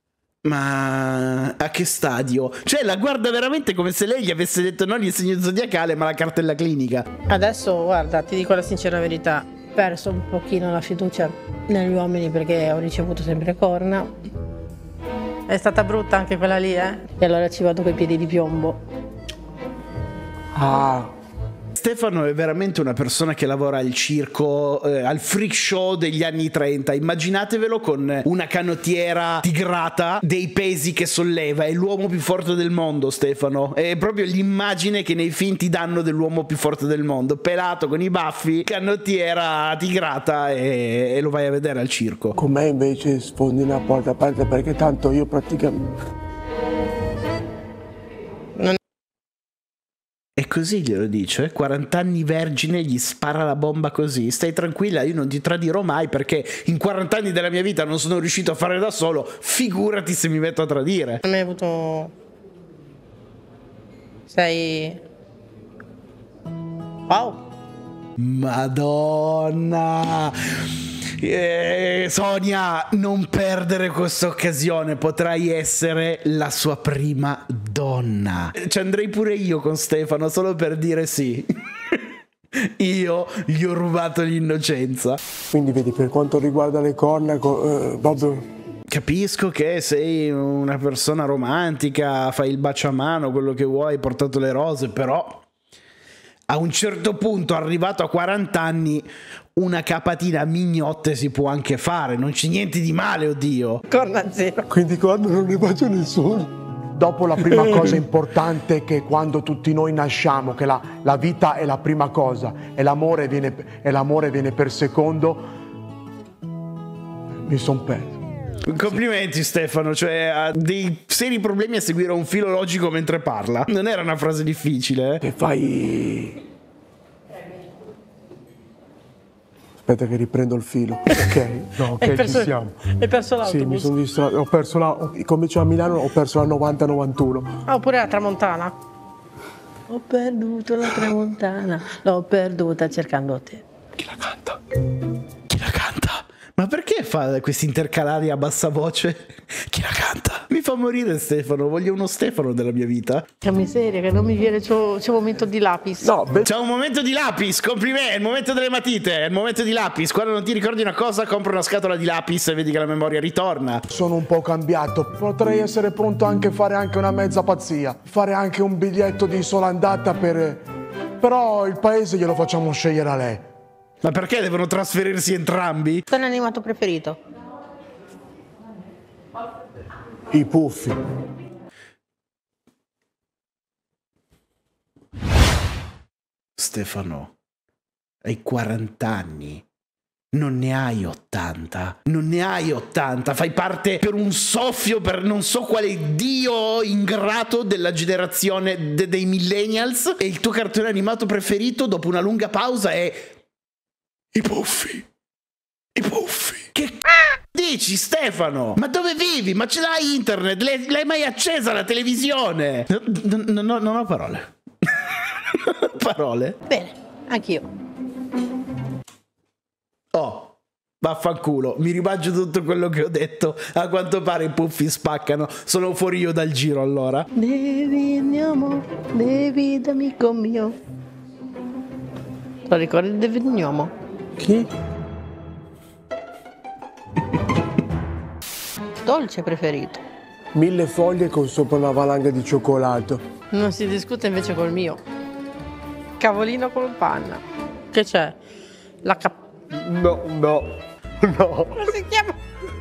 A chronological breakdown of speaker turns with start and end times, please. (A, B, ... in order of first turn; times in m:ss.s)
0:00.4-0:07.1 A
0:07.3-0:14.1 B
0:15.5-0:18.8 B
0:20.5-0:21.1 C
0:21.8-0:42.4 A
0:42.4-0:45.9 C
0:50.4-1:01.2 A
1:01.2-1:02.1 B
1:04.3-1:05.0 B
1:07.1-1:07.4 B
1:08.2-1:21.5 A
1:22.8-1:25.2 A
1:25.5-1:28.4 C
1:28.9-1:35.4 A
1:36.5-1:43.8 A
1:43.9-1:44.6 B
1:44.7-1:55.4 C
1:57.4-1:58.1 C
1:58.7-2:05.2 A
2:05.2-2:06.4 C
2:09.8-2:12.7 C
2:12.0-2:13.9 B
2:13.4-2:17.5 C
2:17.7-2:18.7 B
2:19.9-2:23.6 B
2:24.0-2:24.6 C
2:25.5-2:33.2 A
2:33.4-2:36.1 B
2:36.0-2:36.5 C
2:36.4-2:43.8 A
2:43.9-2:50.6 C
2:51.2-2:53.4 C
2:54.0-2:56.0 A
2:56.1-2:57.2 B
3:00.3-3:01.0 C
3:06.6-3:07.3 A
3:08.2-3:09.6 A
3:10.3-3:23.4 A
3:24.3-3:25.0 C
3:26.0-3:26.7 C
3:26.7-3:27.0 A
3:27.5-3:36.6 A
3:36.7-3:37.7 B
3:40.1-3:47.3 A
3:47.3-3:50.8 B
3:52.7-3:53.9 B
3:54.4-3:54.7 C
3:59.0-4:00.0 B
4:00.5-4:03.2 C
4:03.5-4:05.0 B
4:06.2-4:08.3 B
4:09.0-4:09.3 B
4:09.7-4:11.9 C
4:11.8-4:12.4 B